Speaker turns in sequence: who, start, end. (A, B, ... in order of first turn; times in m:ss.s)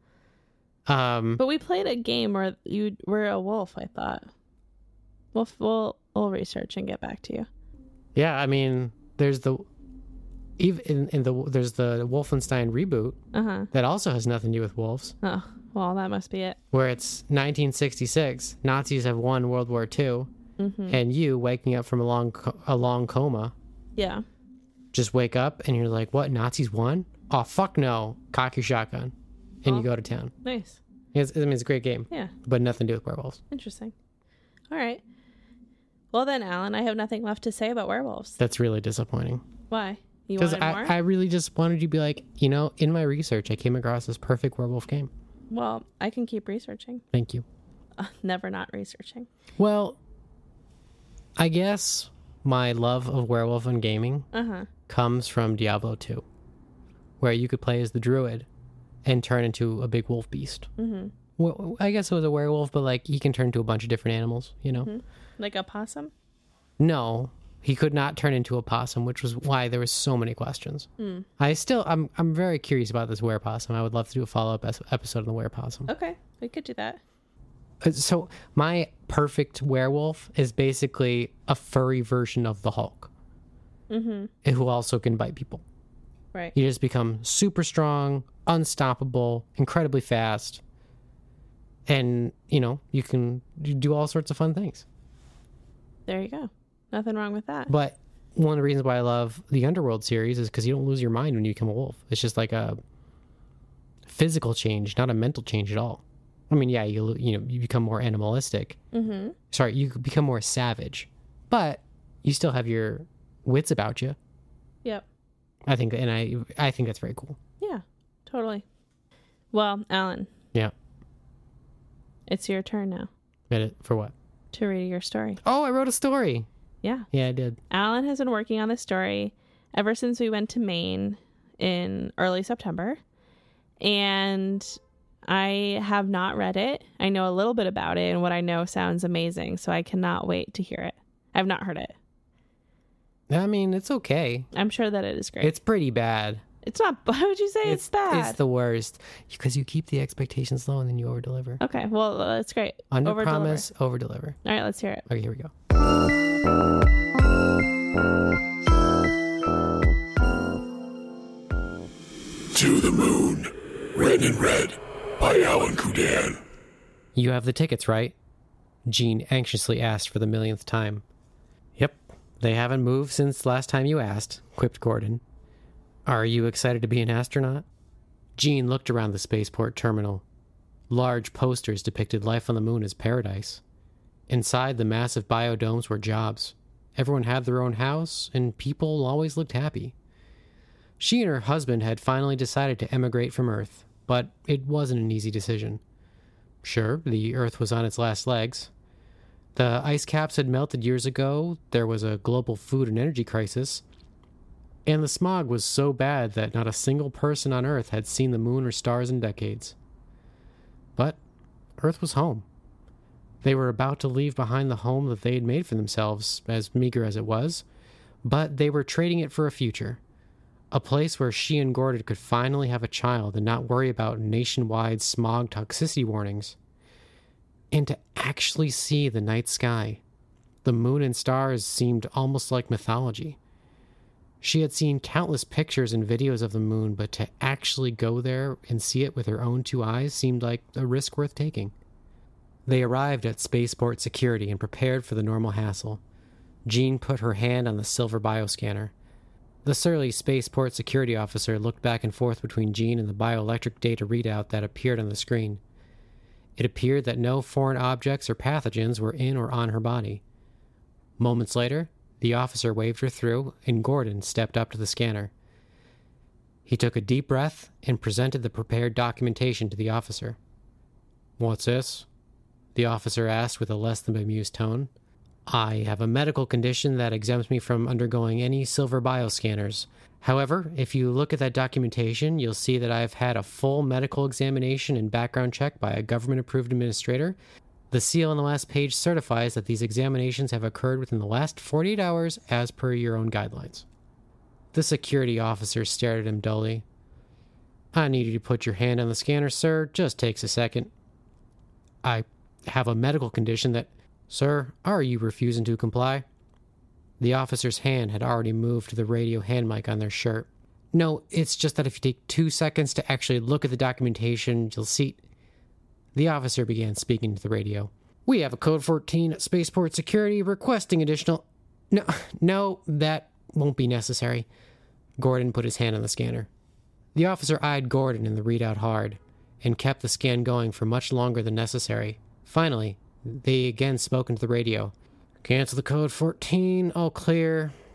0:00.9-0:01.4 A
0:01.4-0:04.3 B
0:05.3-0:07.5 B
0:08.2-0:09.7 A
0:10.6-0:13.2 A
0:13.3-0:13.7 B
0:13.7-0:15.2 A
0:15.2-0:16.6 B
0:16.7-0:20.3 A
0:20.6-0:21.0 B
0:20.9-0:23.5 A
0:24.0-0:24.2 B
0:24.9-0:30.3 A
0:30.4-0:30.8 B
0:31.1-0:33.4 A
0:33.5-0:33.9 B
0:34.7-0:35.0 B
0:36.1-0:38.4 B
0:38.4-0:39.4 A
0:39.7-0:40.9 B
0:40.4-0:45.1 A
0:45.5-0:47.0 B
0:47.1-0:47.4 A
0:48.0-0:49.3 B
0:49.6-0:50.0 A
0:51.4-0:54.3 A
0:54.3-0:54.7 B
0:54.9-0:56.2 A
0:57.2-0:58.5 A
0:59.0-1:00.7 A
1:00.8-1:01.1 B
1:01.4-1:04.9 A
1:04.8-1:06.1 B
1:06.8-1:15.9 A
1:11.0-1:11.3 B
1:15.9-1:17.0 B
1:17.8-1:23.1 A
1:23.9-1:24.3 B
1:24.4-1:25.6 A
1:26.5-1:30.6 A
1:31.9-1:34.9 A
1:36.1-1:37.7 B
1:37.7-1:42.8 A
1:44.1-1:48.8 A
1:48.9-1:49.4 B
1:49.5-1:54.2 A
1:55.7-1:57.4 A
1:57.6-1:58.6 B
1:59.5-2:00.3 B
2:02.3-2:03.1 B
2:03.5-2:04.1 A
2:04.5-2:05.4 B
2:05.4-2:06.5 A
2:06.8-2:07.1 B
2:07.1-2:07.6 A
2:07.7-2:13.0 B
2:13.8-2:21.9 B
2:23.3-2:24.5 A
2:24.5-2:25.5 B
2:25.4-2:26.4 A
2:26.6-2:28.4 B
2:27.6-2:31.6 A
2:31.6-2:33.6 B
2:32.9-2:34.4 A
2:34.4-2:35.0 B
2:35.1-2:35.5 A
2:42.6-2:43.4 C
2:44.0-2:46.4 C
2:47.2-2:48.2 A
2:48.9-2:51.0 A
2:51.8-2:55.2 A
2:56.1-2:57.7 A
2:58.4-3:00.2 A
3:00.9-3:03.6 A
3:04.3-3:10.0 A
3:11.0-3:15.8 A
3:16.6-3:18.7 A
3:19.6-3:23.8 A
3:24.9-3:29.8 A
3:31.8-3:32.5 A
3:33.4-3:37.6 A
3:38.2-3:40.0 A
3:40.7-3:46.6 A
3:47.7-3:50.0 A
3:50.6-3:53.4 A
3:54.4-4:01.7 A
4:02.7-4:06.0 A
4:06.7-4:08.9 A
4:09.6-4:15.6 A
4:16.6-4:20.2 A
4:21.2-4:25.3 A
4:26.6-4:30.4 A
4:31.4-4:32.1 A
4:32.8-4:34.9 A
4:35.5-4:47.4 A
4:47.9-4:53.8 A
4:54.7-4:56.8 A
4:57.9-5:00.9 A
5:02.0-5:06.2 A
5:07.2-5:15.2 A
5:16.2-5:24.5 A
5:25.2-5:26.5 A
5:27.1-5:37.7 A